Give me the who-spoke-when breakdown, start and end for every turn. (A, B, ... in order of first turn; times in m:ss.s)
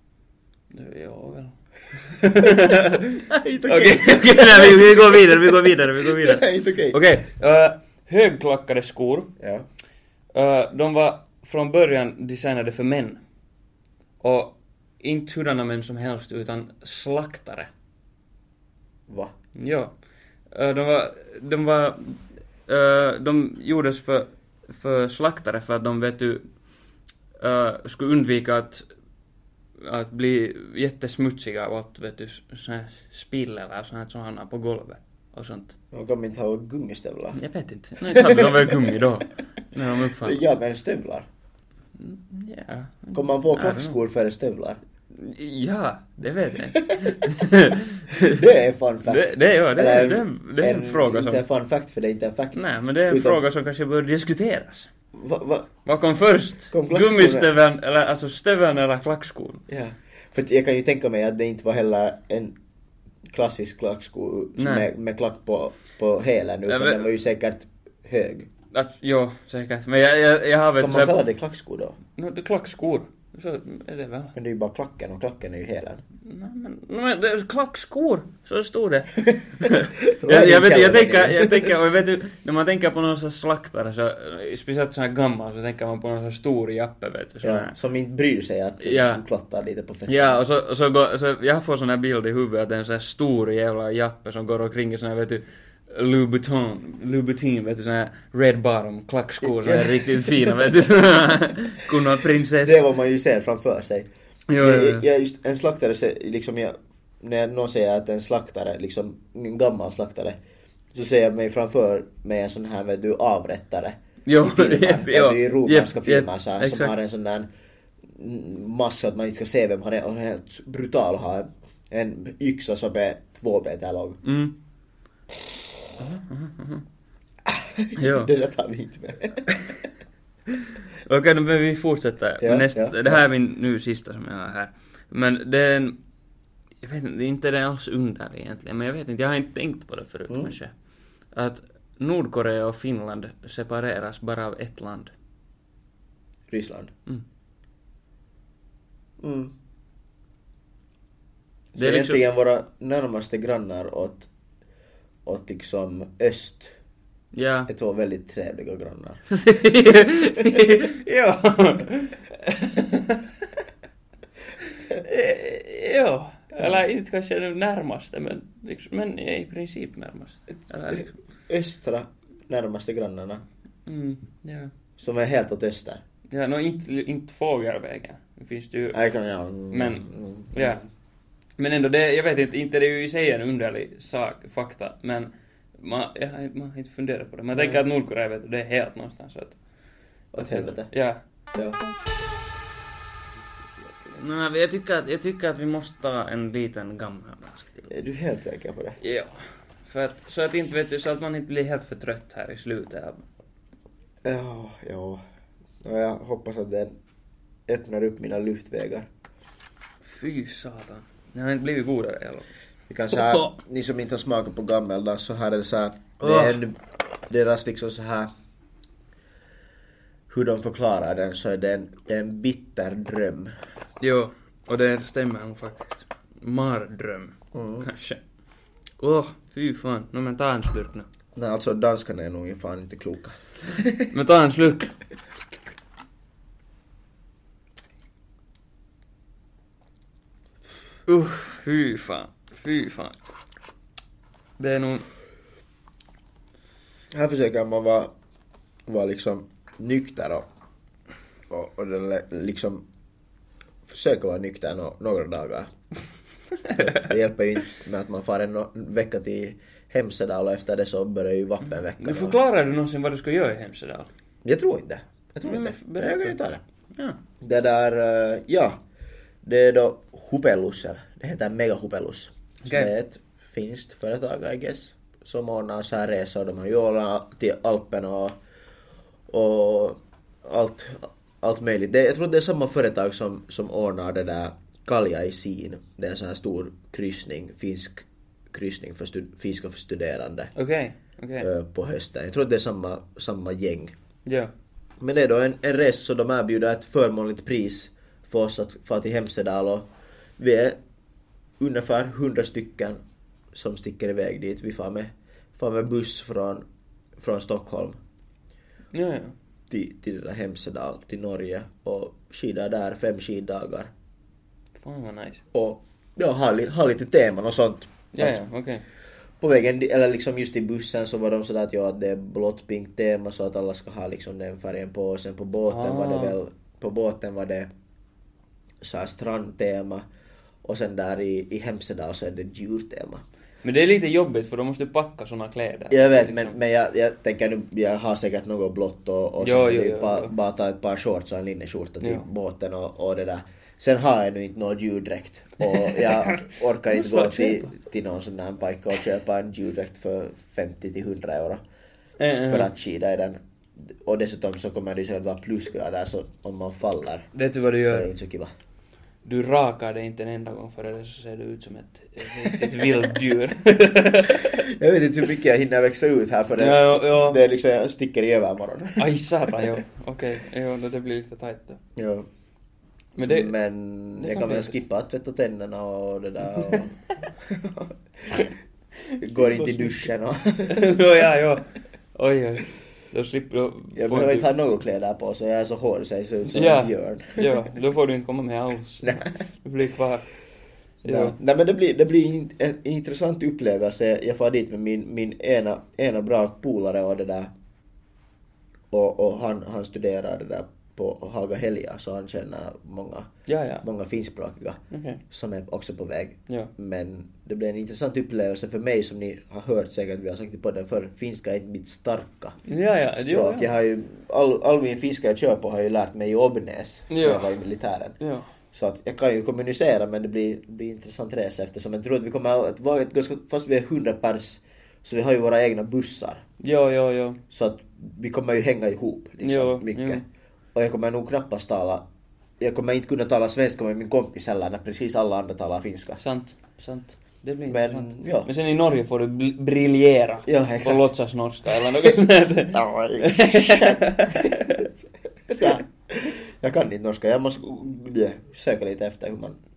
0:00.7-0:09.3 A
0:03.3-0:07.0 B
0:09.4-0:09.6 B
0:10.3-0:13.2 A
0:14.2-0:17.7 A
0:19.1-0:19.3 B
0:19.6-0:19.9 A
0:20.5-0:26.4 A
0:27.4-0:28.8 A
0:29.8-0:35.8 A
0:35.9-0:37.4 B
0:37.3-0:40.4 A
0:38.0-0:39.0 B
0:40.2-0:41.3 B
0:42.0-0:44.0 A
0:43.1-0:44.8 B
0:45.1-0:48.4 A
0:46.7-0:47.2 B
0:48.2-0:53.4 B
0:49.1-0:51.4 A
0:52.5-0:54.9 A
0:55.1-0:55.7 B
0:55.8-0:59.6 A
0:56.7-0:57.5 B
0:59.7-1:02.6 B
1:03.3-1:08.5 B
1:04.6-1:04.9 A
1:06.7-1:07.1 A
1:08.7-1:11.1 A
1:10.8-1:12.0 B
1:12.2-1:14.3 A
1:14.4-1:16.0 B
1:16.2-1:27.7 A
1:19.6-1:21.7 B
1:27.4-1:30.4 B
1:28.8-1:29.2 A
1:30.1-1:42.8 A
1:39.4-1:40.5 B
1:42.6-1:50.4 B
1:44.5-1:45.1 A
1:50.9-1:57.5 B
1:54.2-1:57.0 A
1:58.1-2:04.2 B
2:04.2-2:04.5 A
2:06.0-2:06.8 A
2:07.4-2:09.4 B
2:08.0-2:08.3 A
2:10.9-2:16.0 A
2:12.4-2:13.2 B
2:16.8-2:20.7 A
2:20.3-2:20.5 B
2:21.3-2:25.1 A
2:26.5-2:26.9 B
2:29.2-2:29.5 B
2:31.7-2:34.3 B
2:31.8-2:32.2 A
2:35.2-2:36.7 B
2:37.3-2:37.7 A
2:37.7-2:39.2 B
2:39.3-2:43.3 A
2:44.7-2:51.2 A
2:50.9-2:53.4 B
2:53.9-2:54.7 A
2:55.0-2:56.0 B
2:56.3-2:59.0 A
2:58.9-3:00.8 B
2:59.7-3:00.8 A
3:01.6-3:09.6 A
3:07.5-3:07.8 B
3:10.3-3:10.9 B
3:10.4-3:11.2 A
3:13.7-3:14.0 B
3:14.0-3:17.9 A
3:17.9-3:19.0 B
3:19.0-3:23.2 A
3:24.2-3:25.2 B
3:25.8-3:27.0 B
3:27.7-3:29.1 B
3:30.0-3:32.5 A
3:32.9-3:36.8 B
3:33.1-3:33.6 A
3:36.2-3:36.6 A
3:37.3-3:38.3 B
3:40.3-3:43.5 B
3:44.0-3:48.2 A
3:47.5-3:47.9 B
3:49.0-3:51.0 A
3:51.4-3:54.1 B
3:54.1-3:54.9 A
4:01.1-4:03.2 A
4:04.6-4:05.1 A
4:07.1-4:08.1 B
4:08.9-4:10.5 B
4:11.5-4:12.8 B
4:13.9-4:15.7 B
4:16.7-4:22.4 B
4:22.0-4:24.1 A
4:24.4-4:26.6 B
4:25.4-4:26.4 A
4:27.4-4:28.8 B
4:29.4-4:38.4 B
4:32.6-4:32.9 A
4:39.3-4:50.5 B
4:50.6-4:51.5 A
4:51.4-4:53.9 B
4:54.3-4:54.5 A
4:55.0-4:59.9 B
5:00.4-5:00.8 B
5:01.6-5:03.0 B
5:03.5-5:06.6 B
5:07.2-5:08.0 B
5:08.9-5:09.3 A
5:09.7-5:13.9 B
5:14.8-5:15.4 A
5:15.5-5:18.4 B
5:18.1-5:18.8 A
5:19.4-5:27.7 B
5:25.7-5:26.4 A
5:28.8-5:30.1 B
5:30.6-5:33.2 B
5:33.6-5:36.6 A
5:35.9-5:51.6 B
5:39.4-5:40.3 A
5:45.7-5:47.7 A
5:52.2-5:52.7 A
5:52.4-5:57.3 B
5:57.3-5:58.1 A
5:57.8-5:58.5 B
5:59.2-6:04.6 A
6:04.4-6:09.1 B
6:06.6-6:07.4 A
6:09.0-6:11.8 A
6:12.0-6:12.3 B
6:13.2-6:13.5 A
6:13.2-6:18.4 B
6:14.2-6:14.7 A
6:19.1-6:19.9 A
6:19.2-6:20.9 B
6:20.7-6:24.5 A
6:24.0-6:27.7 B
6:26.5-6:30.3 A
6:31.0-6:31.4 A
6:31.0-6:37.5 B
6:38.9-6:43.3 B
6:43.5-6:43.8 A
6:43.8-6:44.8 B
6:44.9-6:45.2 A
6:45.3-6:52.6 B
6:52.7-6:53.7 A
6:53.2-6:58.2 B
6:57.1-6:57.5 A
6:58.2-6:58.5 A
6:58.7-7:06.4 B
7:06.6-7:07.4 A
7:07.5-7:12.1 B
7:09.4-7:10.2 A
7:12.6-7:16.2 B
7:16.2-7:24.9 A
7:17.7-7:18.5 B
7:20.4-7:21.1 B
7:21.7-7:22.1 B
7:22.7-7:25.0 B
7:25.5-7:29.6 B